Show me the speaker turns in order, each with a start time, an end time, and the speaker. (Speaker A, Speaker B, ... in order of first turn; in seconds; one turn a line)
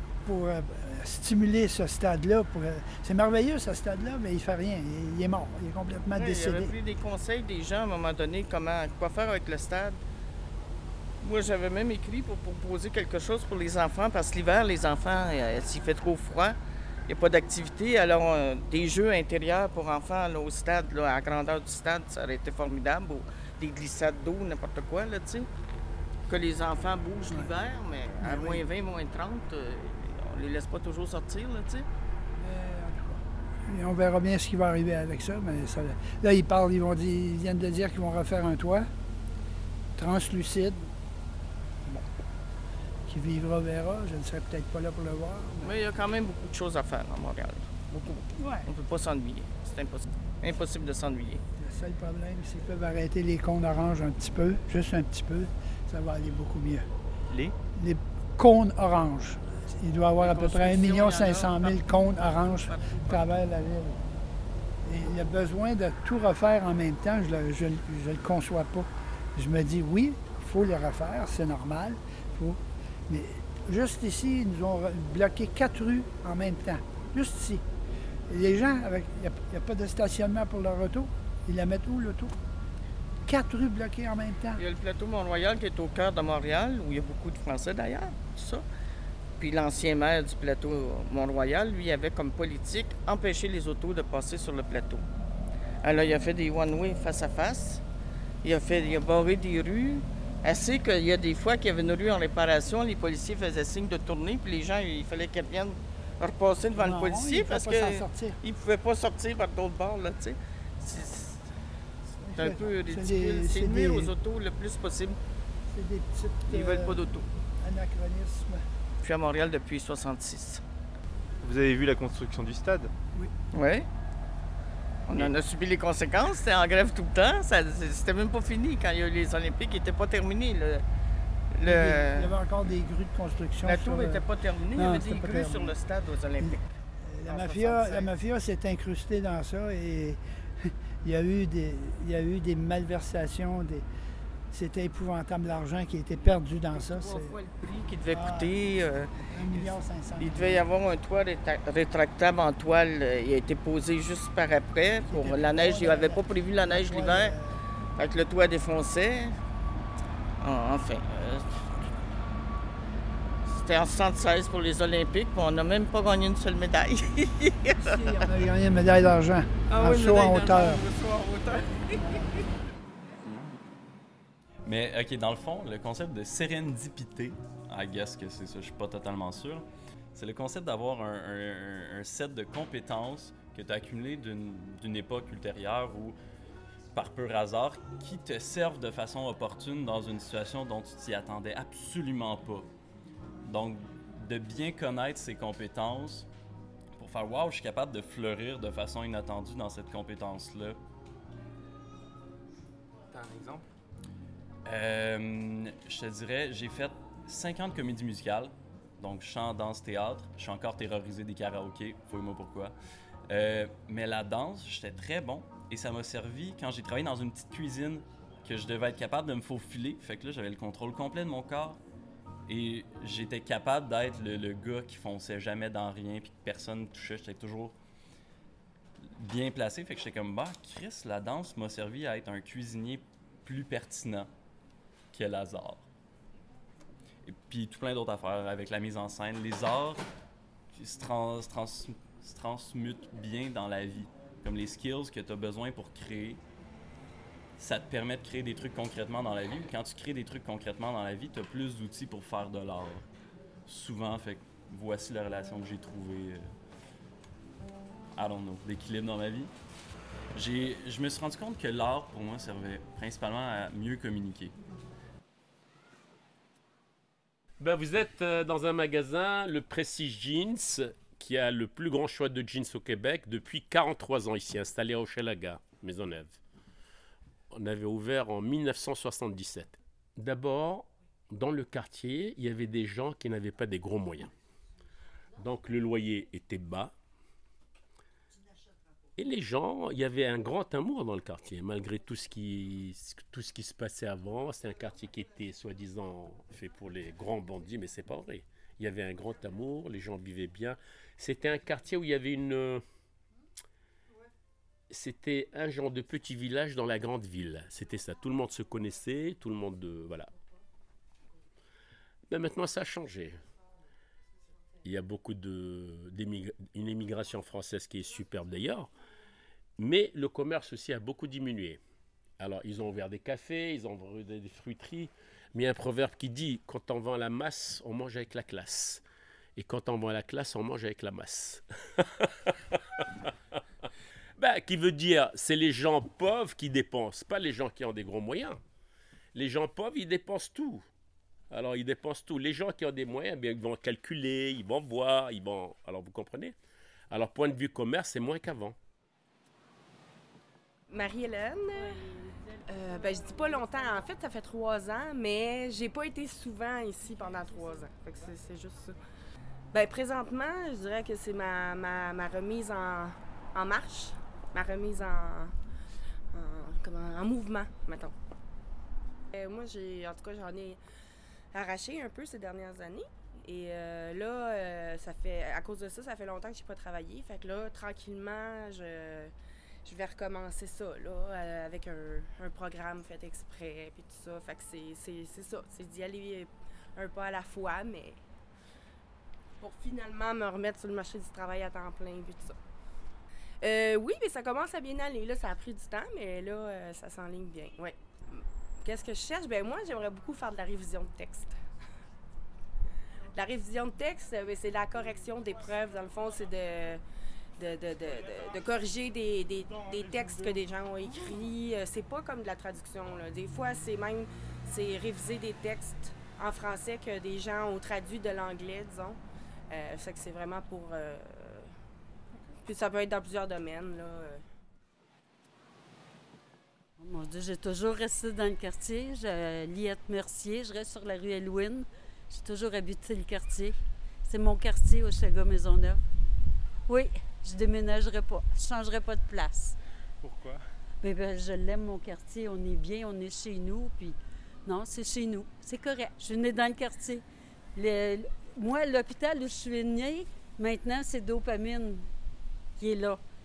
Speaker A: 0.2-6.7
Speaker B: 6.1-10.0
Speaker B: 11.2-25.5
Speaker B: 26.3-31.9
Speaker A: 28.2-28.6
Speaker A: 32.4-38.9
Speaker A: 40.0-40.9
Speaker A: 43.1-45.7
Speaker B: 45.6-51.4
Speaker A: 51.6-56.9
Speaker C: 57.3-57.5
Speaker A: 57.8-64.0
Speaker B: 60.2-63.3
Speaker A: 64.8-77.6
Speaker A: 78.3-82.3
Speaker A: 83.2-84.6
Speaker B: 84.6-88.6
Speaker B: 89.4-95.0
Speaker B: 95.8-97.8
Speaker B: 98.4-111.5
Speaker A: 106.8-108.4
Speaker A: 112.2-114.1
Speaker B: 112.3-115.2
Speaker A: 115.7-117.0
Speaker B: 116.5-117.3
Speaker A: 117.6-118.6
Speaker B: 119.0-120.6
Speaker C: 121.4-122.9
Speaker B: 123.5-123.9
Speaker B: 125.0-130.8
Speaker B: 131.5-132.3
Speaker A: 131.6-135.8
Speaker B: 133.6-136.6
Speaker A: 136.4-143.8
Speaker B: 137.2-138.1
Speaker A: 144.5-147.4
Speaker B: 146.7-157.3
Speaker A: 148.1-148.6
Speaker A: 149.3-150.7
Speaker A: 155.1-157.6
Speaker B: 158.0-159.4
Speaker B: 160.4-161.7
Speaker B: 163.5-168.2
Speaker A: 167.8-170.8
Speaker B: 169.7-172.3
Speaker D: 174.6-186.2
Speaker D: 186.9-192.7
Speaker D: 193.4-196.3
Speaker D: 196.9-200.8
Speaker C: 203.1-203.7
Speaker D: 204.6-212.7
Speaker D: 213.3-221.8
Speaker D: 222.5-227.8
Speaker D: 229.0-234.3
Speaker D: 235.1-235.9
Speaker D: 237.2-240.0
Speaker D: 240.7-246.4
Speaker D: 247.6-253.1
Speaker D: 253.7-256.5
Speaker D: 258.1-259.5
Speaker D: 260.3-264.5
Speaker E: 267.6-276.4
Speaker E: 277.5-284.3
Speaker E: 285.4-286.9
Speaker E: 289.2-302.8
Speaker E: 304.9-310.3
Speaker E: 312.3-313.4
Speaker E: 314.8-318.9
Speaker E: 319.8-321.8
Speaker E: 322.4-329.0
Speaker E: 329.6-333.1
Speaker E: 334.4-338.6
Speaker E: 339.3-340.8
Speaker E: 341.5-346.5
Speaker E: 347.1-348.8
Speaker F: 350.9-352.1
Speaker F: 352.6-359.0
Speaker F: 359.7-365.5
Speaker F: 366.3-368.1
Speaker F: 369.3-370.8
Speaker F: 371.5-379.3
Speaker F: 379.8-388.2
Speaker F: 389.6-392.6
Speaker F: 393.6-401.6
Speaker F: 403.3-407.0
Speaker F: 407.6-421.7
Speaker F: 422.6-424.4
Speaker G: 427.0-436.0
Speaker G: 436.9-439.8
Speaker C: 440.2-440.6
Speaker G: 441.0-447.2
Speaker G: 447.7-452.1
Speaker G: 452.8-453.2